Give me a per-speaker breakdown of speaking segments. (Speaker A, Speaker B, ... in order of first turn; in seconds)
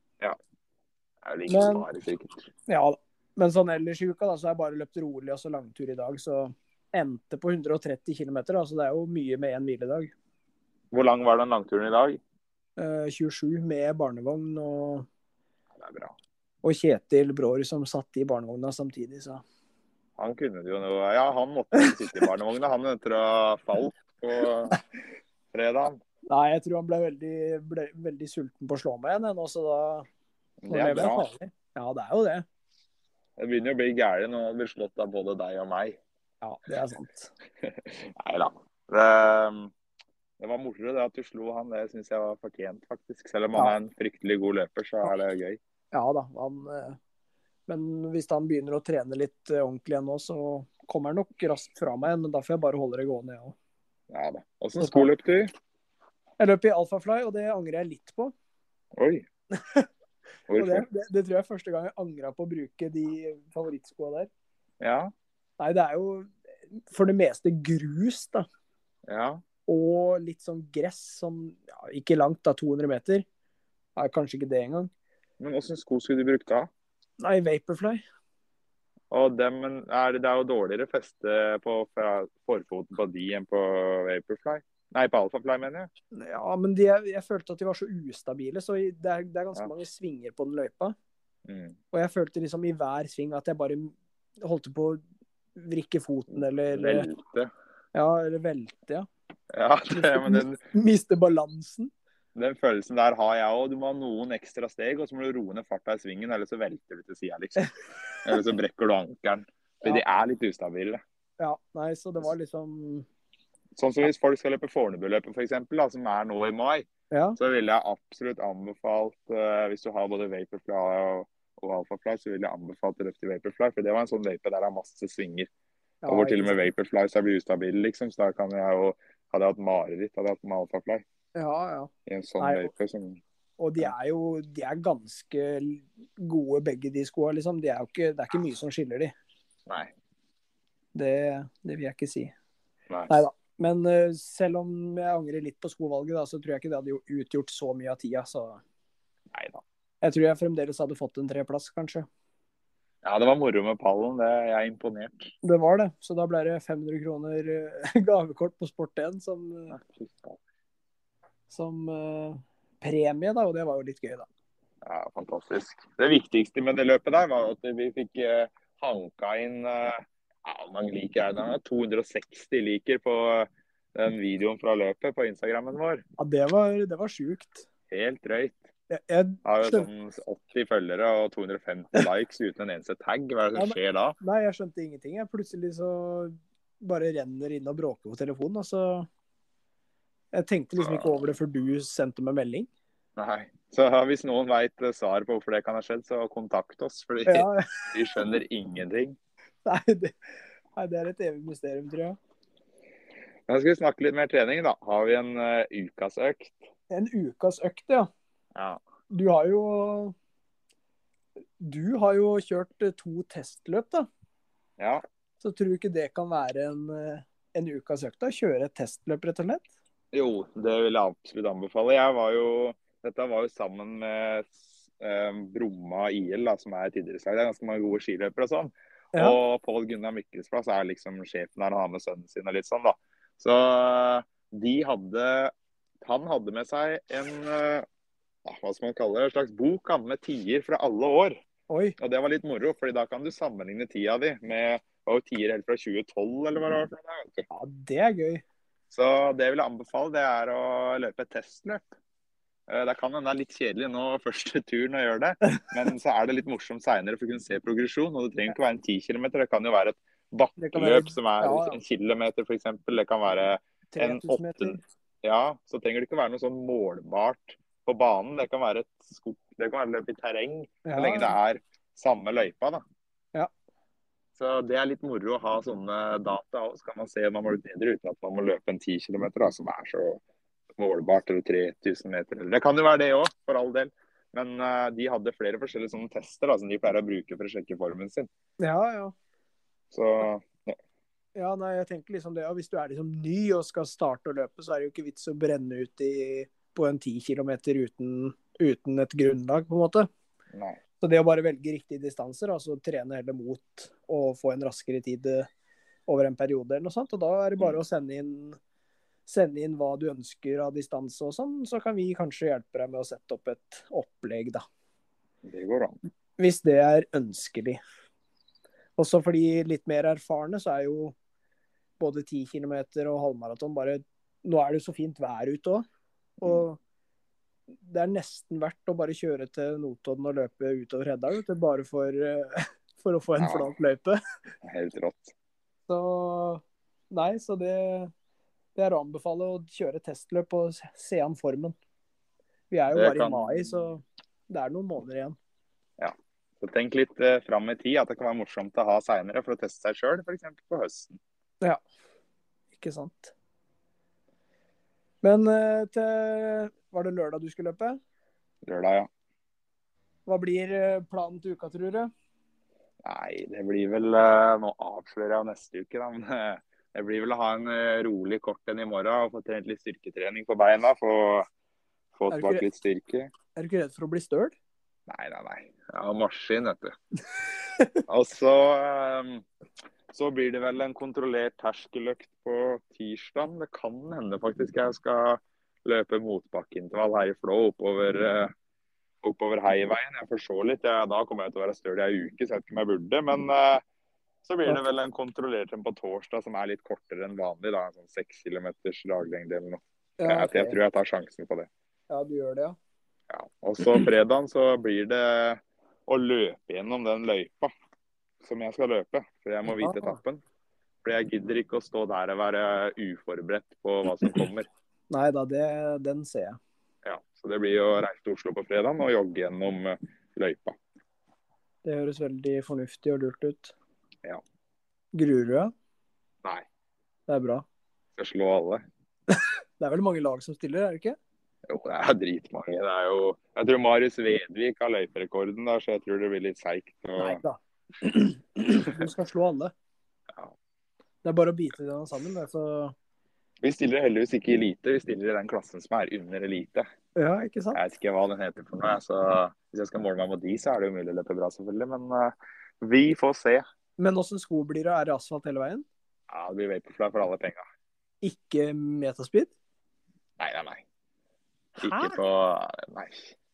Speaker A: 1.2-2.5, 10.9-12.2, 15.8-16.1, 20.2-24.8, 25.5-26.0, 30.6-31.3, 33.4-36.0, 37.6-39.7, 40.4-45.6, 54.1-55.5, 59.0-59.2, 60.5-60.8, 64.8-65.1, 69.1-69.4, 75.4-76.7, 79.1-85.9, 91.5-91.8, 96.3-97.5, 99.5-100.6, 102.3-107.7, 108.2-111.0, 113.8-116.9, 117.4-125.5, 126.1-131.0, 132.1-133.2, 149.3-149.6, 153.0-155.3, 159.7-160.4, 164.8-176.0, 177.9-178.7, 179.4-184.2, 190.8-191.1, 193.2-199.2, 203.5-206.6, 208.5-208.8, 220.1-235.5, 236.0-237.8, 238.4-241.4, 242.0-247.4, 248.9-251.9, 252.7-272.8, 274.4-280.2, 280.8-288.3, 289.9-290.8, 300.5-300.8, 315.4-316.0, 333.4-333.7, 334.6-335.3, 342.9-343.8, 346.0-351.2, 358.6-359.1, 363.0-371.4, 372.1-373.3, 375.1-376.9, 378.1-379.4, 380.1-388.5, 389.2-393.8, 394.4-401.7, 403.3-407.7, 408.4-410.4, 411.0-414.7, 417.0-420.7, 428.2-428.8, 431.7-437.4, 443.6-446.8, 447.7-453.6, 456.3-457.6, 460.4-460.8, 461.8-463.3
Speaker B: 1.5-1.9, 2.7-10.1, 12.8-15.1, 16.6-19.4, 21.7-22.2, 26.3-30.1, 30.7-32.4, 36.4-37.3, 45.9-47.0, 47.7-53.5, 54.8-55.1, 56.4-58.3, 59.5-59.9, 60.5-64.3, 65.6-68.4, 69.7-73.2, 74.0-74.9, 77.2-78.0, 86.1-91.0, 91.9-95.0, 95.5-97.1, 97.9-99.1, 99.9-101.9, 111.4-113.0, 117.1-117.4, 126.0-126.6, 131.3-132.7, 133.6-139.1, 140.9-142.3, 143.1-148.6, 150.0-152.1, 155.4-159.8, 161.5-164.3, 176.2-177.7, 178.9-179.9, 183.5-189.1, 190.3-192.7, 197.2-197.7, 199.6-200.1, 200.8-202.2, 206.9-208.1, 209.1-210.1, 211.6-214.1, 215.4-219.6, 241.7-241.9, 247.5-248.4, 255.4-255.7, 260.6-261.8, 263.9-264.8, 270.8-271.3, 288.6-289.1, 291.3-300.1, 301.0-305.5, 306.1-308.6, 309.3-314.6, 316.4-317.8, 319.0-321.1, 322.0-325.8, 326.4-326.8, 327.8-334.2, 335.9-338.1, 338.7-341.8, 342.7-345.4, 352.7-353.3, 355.2-358.0, 360.2-362.1, 372.3-372.6, 373.5-374.5, 400.2-400.8, 402.1-402.8, 409.7-410.2, 415.1-416.6, 421.8-423.7, 425.1-425.7, 427.3-427.6, 429.3-431.2, 437.2-439.7, 441.2-442.9, 447.1-447.8, 454.0-455.9, 458.2-459.5, 461.8-462.2